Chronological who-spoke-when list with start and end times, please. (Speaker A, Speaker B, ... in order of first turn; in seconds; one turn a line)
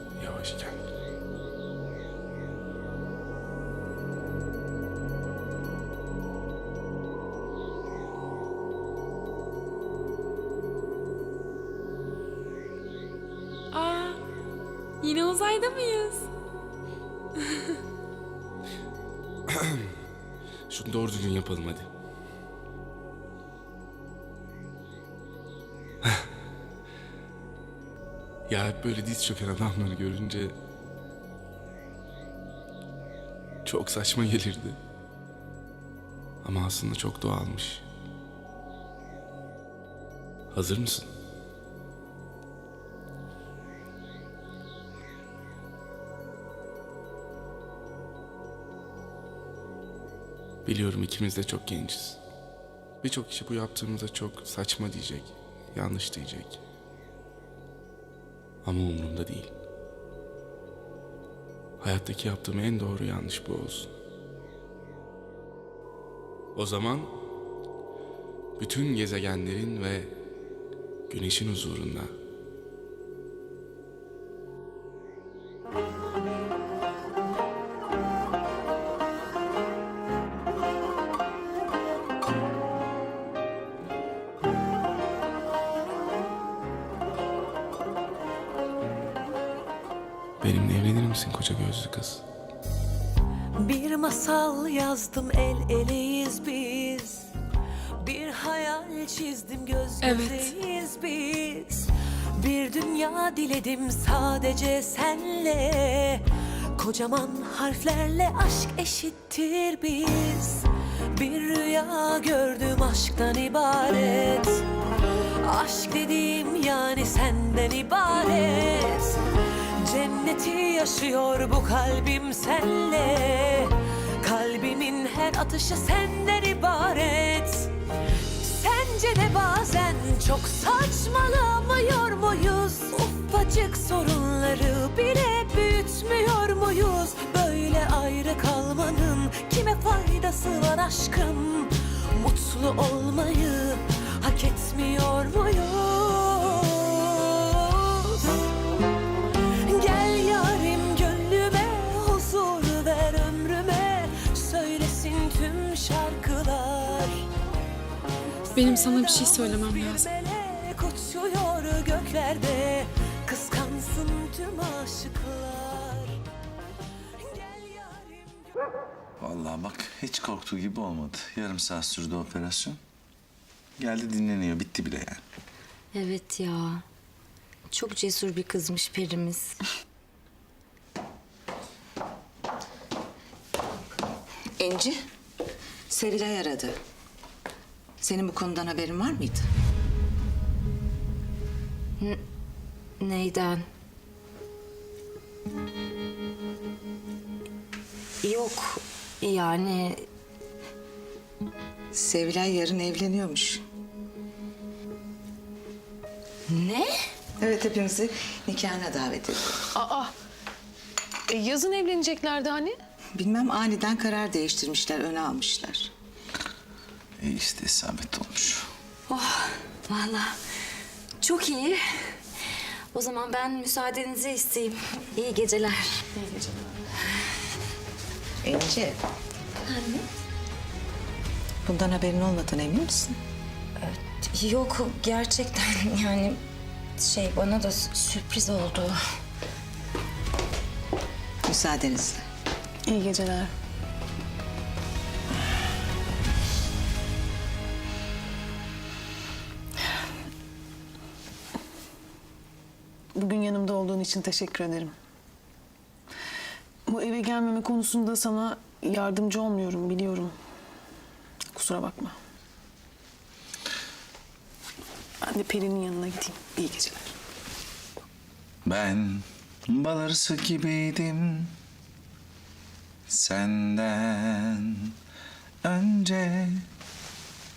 Speaker A: 0.2-0.8
Speaker B: 13.7-14.2
Speaker B: 15.0-16.3
Speaker A: 19.5-19.9
Speaker A: 20.7-21.9
Speaker A: 28.5-30.5
Speaker A: 33.6-34.8
Speaker A: 36.4-37.8
Speaker A: 40.5-41.1
Speaker A: 50.6-52.2
Speaker A: 53.0-56.6
Speaker A: 58.6-59.5
Speaker A: 61.8-63.9
Speaker A: 66.5-67.1
Speaker A: 68.6-70.1
Speaker A: 71.1-72.1
Speaker A: 90.4-92.2
Speaker C: 93.6-97.3
Speaker C: 98.0-106.2
Speaker B: 100.0-100.5
Speaker C: 106.8-114.7
Speaker C: 115.4-119.2
Speaker C: 119.8-127.7
Speaker C: 128.4-148.4
Speaker C: 149.7-157.3
Speaker B: 158.5-160.1
Speaker C: 158.6-166.2
Speaker C: 167.2-168.6
Speaker D: 169.2-172.8
Speaker D: 173.8-175.2
Speaker E: 175.9-176.8
Speaker E: 177.7-179.5
Speaker F: 184.6-185.0
Speaker F: 185.9-186.8
Speaker F: 188.0-189.5
Speaker E: 193.0-193.7
Speaker E: 198.2-200.0
Speaker F: 201.9-203.6
Speaker E: 206.5-206.9
Speaker F: 207.4-209.5
Speaker G: 209.8-210.1
Speaker G: 211.3-212.8
Speaker F: 213.2-215.9
Speaker D: 217.2-218.7
Speaker E: 219.1-220.3
Speaker E: 221.2-222.0
Speaker E: 222.9-226.0
Speaker F: 228.4-228.9
Speaker F: 231.6-233.2
Speaker E: 233.8-236.4
Speaker E: 237.0-239.0
Speaker F: 241.4-242.2
Speaker G: 242.9-243.5
Speaker G: 253.2-254.9
Speaker G: 256.9-260.3
Speaker G: 261.5-262.1
Speaker G: 265.2-267.1
Speaker D: 268.6-271.6
Speaker D: 273.1-274.9
Speaker D: 275.6-276.7